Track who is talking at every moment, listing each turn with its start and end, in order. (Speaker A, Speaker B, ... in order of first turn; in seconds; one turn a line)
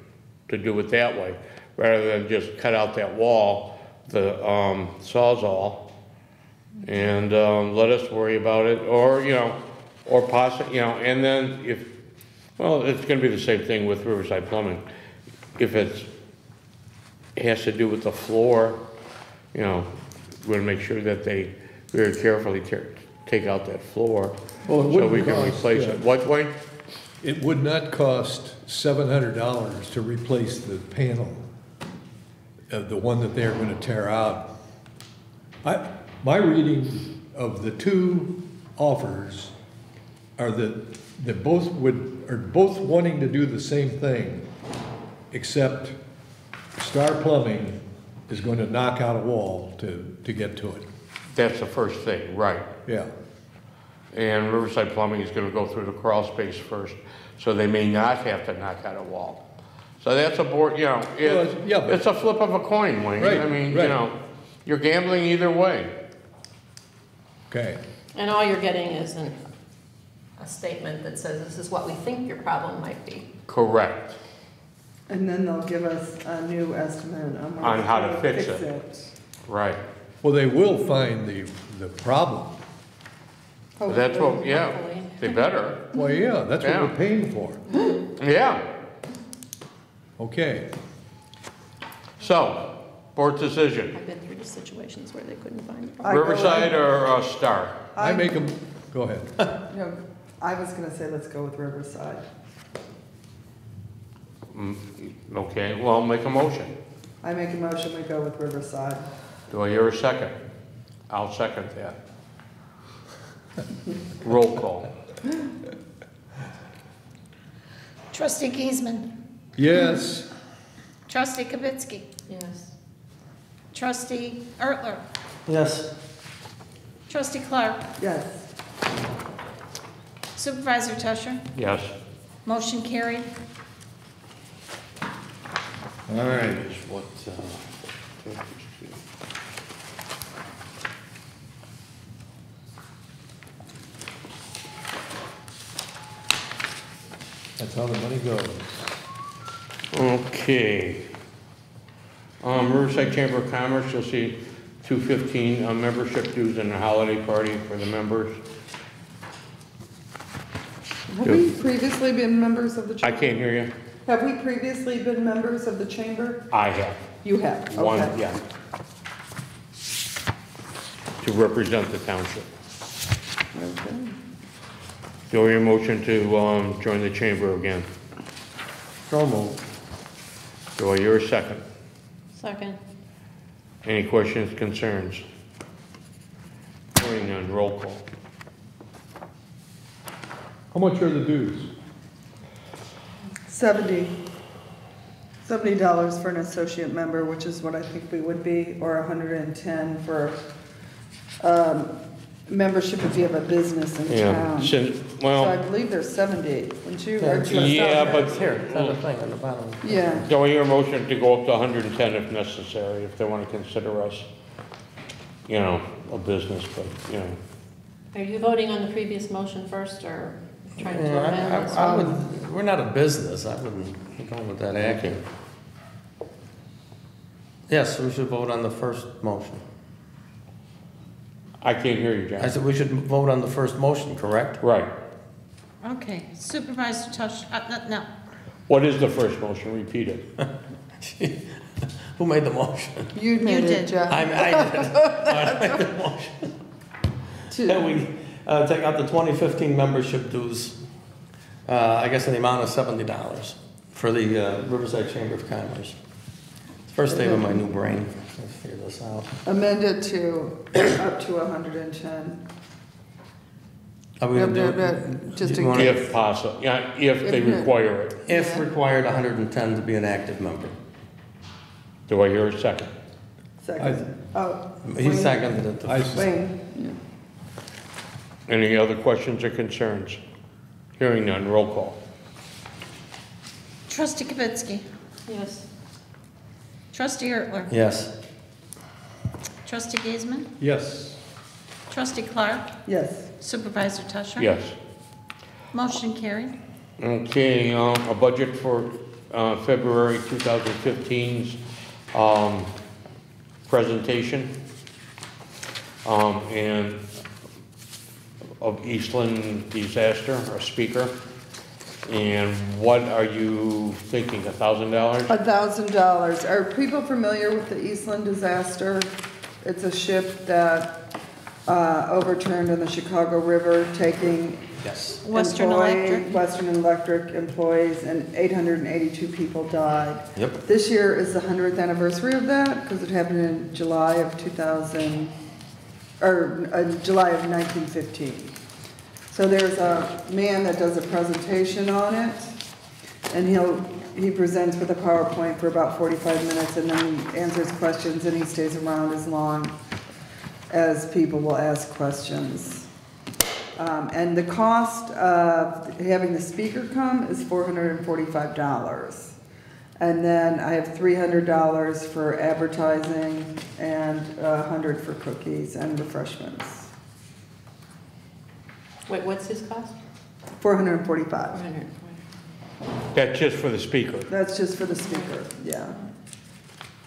Speaker A: 0.5-5.9
Speaker A: 6.8-11.9
Speaker A: 12.6-14.8
Speaker A: 15.6-16.1
Speaker A: 17.3-18.8
Speaker A: 19.5-19.9
Speaker A: 20.4-26.6
Speaker B: 24.6-26.0
Speaker B: 27.2-31.4
Speaker B: 32.7-34.5
Speaker B: 35.6-39.5
Speaker B: 40.4-44.5
Speaker B: 45.3-46.0
Speaker B: 46.8-50.9
Speaker A: 51.3-52.7
Speaker B: 52.9-53.1
Speaker A: 54.1-59.4
Speaker A: 60.0-65.9
Speaker B: 61.2-62.0
Speaker B: 63.2-64.0
Speaker B: 67.5-67.8
Speaker C: 68.1-69.4
Speaker C: 70.4-73.3
Speaker A: 73.5-74.2
Speaker D: 75.1-79.1
Speaker A: 77.6-78.7
Speaker A: 79.5-79.8
Speaker B: 80.2-82.5
Speaker D: 83.8-84.4
Speaker A: 83.9-85.8
Speaker C: 84.1-85.4
Speaker B: 85.9-87.6
Speaker A: 86.6-86.9
Speaker C: 87.7-87.9
Speaker A: 88.2-88.6
Speaker B: 90.2-90.7
Speaker A: 92.2-93.9
Speaker C: 93.9-96.3
Speaker D: 96.0-96.8
Speaker A: 96.1-97.9
Speaker D: 97.9-98.5
Speaker B: 98.0-99.3
Speaker D: 99.7-102.2
Speaker A: 104.5-106.7
Speaker D: 107.2-109.1
Speaker A: 109.5-110.3
Speaker A: 111.1-112.0
Speaker A: 114.2-114.9
Speaker E: 118.1-119.1
Speaker B: 119.5-120.3
Speaker E: 121.1-122.1
Speaker C: 122.3-122.7
Speaker E: 123.7-125.0
Speaker F: 125.5-125.9
Speaker E: 127.1-127.8
Speaker D: 128.0-128.4
Speaker E: 130.3-131.4
Speaker A: 131.6-131.9
Speaker E: 132.4-133.3
Speaker B: 136.1-136.6
Speaker A: 136.2-139.0
Speaker B: 147.6-148.8
Speaker A: 149.9-151.1
Speaker A: 152.4-158.4
Speaker D: 161.1-163.4
Speaker A: 163.0-163.7
Speaker D: 164.1-166.4
Speaker A: 166.5-167.0
Speaker D: 167.2-168.2
Speaker A: 167.7-168.4
Speaker A: 171.2-172.5
Speaker D: 173.5-174.2
Speaker A: 175.3-177.9
Speaker F: 179.1-179.6
Speaker A: 180.8-181.6
Speaker C: 182.3-182.8
Speaker A: 183.8-185.2
Speaker A: 186.9-188.0
Speaker B: 190.7-191.7
Speaker D: 193.5-194.1
Speaker D: 195.4-200.4
Speaker D: 201.4-201.9
Speaker D: 202.5-204.8
Speaker A: 204.1-205.6
Speaker D: 205.3-208.3
Speaker F: 207.2-210.2
Speaker A: 207.5-209.0
Speaker D: 209.8-210.3
Speaker A: 210.2-214.3
Speaker A: 215.5-217.4
Speaker C: 218.1-222.2
Speaker F: 220.8-225.2
Speaker F: 227.7-229.6
Speaker A: 231.6-232.5
Speaker F: 232.4-234.6
Speaker A: 234.6-234.9
Speaker E: 235.8-238.1
Speaker A: 238.7-240.3
Speaker F: 241.0-243.1
Speaker D: 243.1-245.8
Speaker E: 243.4-244.0
Speaker F: 244.1-246.5
Speaker D: 247.5-247.9
Speaker F: 247.6-250.8
Speaker F: 251.7-255.9
Speaker F: 256.9-259.3
Speaker D: 257.1-257.7
Speaker D: 259.4-262.4
Speaker F: 264.2-266.0
Speaker D: 264.3-266.1
Speaker A: 265.7-268.2
Speaker D: 267.2-267.7
Speaker F: 268.2-270.7
Speaker D: 268.3-268.7
Speaker A: 272.1-272.9
Speaker D: 273.6-277.0
Speaker B: 273.8-274.0
Speaker F: 274.8-276.3
Speaker B: 275.8-276.3
Speaker A: 278.5-280.2
Speaker A: 281.0-282.0
Speaker E: 283.9-284.9
Speaker C: 285.3-285.6
Speaker E: 286.9-287.7
Speaker F: 287.7-288.1
Speaker E: 289.6-290.5
Speaker B: 290.6-291.2
Speaker E: 291.9-292.7
Speaker D: 292.9-293.3
Speaker E: 293.4-294.5
Speaker A: 294.4-294.8
Speaker E: 295.7-296.5
Speaker A: 297.0-301.6
Speaker A: 302.1-302.7
Speaker A: 303.7-304.5
Speaker A: 306.0-307.0
Speaker A: 308.6-311.1
Speaker A: 312.1-315.3
Speaker D: 315.3-319.1
Speaker D: 319.6-320.9
Speaker D: 321.6-324.7
Speaker F: 324.8-325.2
Speaker E: 325.2-326.3
Speaker D: 325.3-335.3
Speaker D: 336.2-338.5
Speaker D: 339.3-342.5
Speaker D: 343.3-349.7
Speaker D: 350.7-352.9
Speaker D: 353.8-359.4
Speaker D: 360.0-366.9
Speaker C: 369.1-369.9
Speaker D: 370.6-371.6
Speaker C: 371.5-372.2
Speaker A: 373.1-374.3
Speaker D: 374.3-376.0
Speaker C: 374.8-375.3